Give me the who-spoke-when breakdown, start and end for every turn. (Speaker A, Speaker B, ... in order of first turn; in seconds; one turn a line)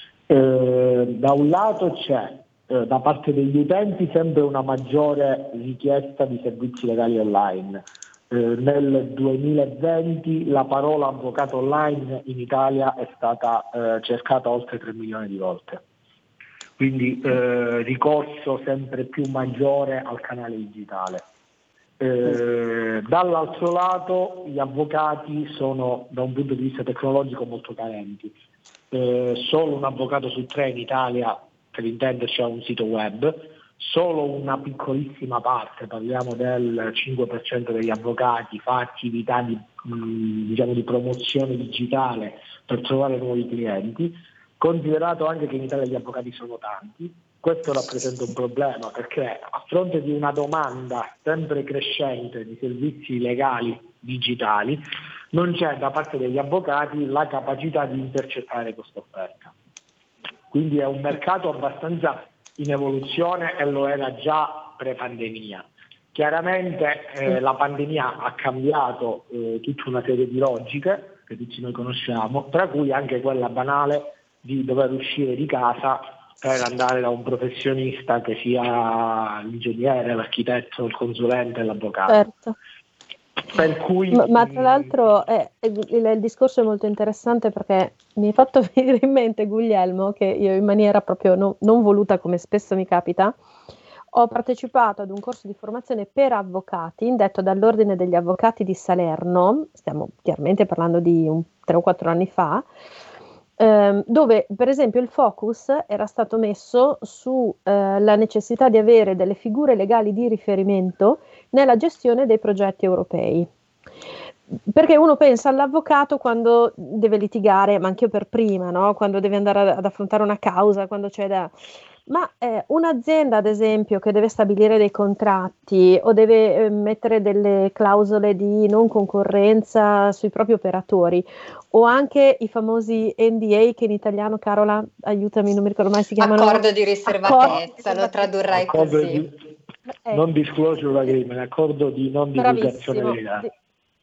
Speaker A: 0.3-15.8
Speaker A: 16.8-21.2
Speaker A: 22.0-28.4
Speaker A: 28.9-59.5
Speaker A: 60.5-82.2
Speaker B: 82.1-82.6
Speaker A: 83.5-84.9
Speaker B: 84.1-93.3
Speaker B: 94.1-102.7
Speaker B: 103.6-113.5
Speaker B: 114.7-121.5
Speaker B: 122.1-138.3
Speaker C: 136.2-139.2
Speaker A: 138.5-139.3
Speaker A: 140.1-143.5
Speaker B: 142.4-143.5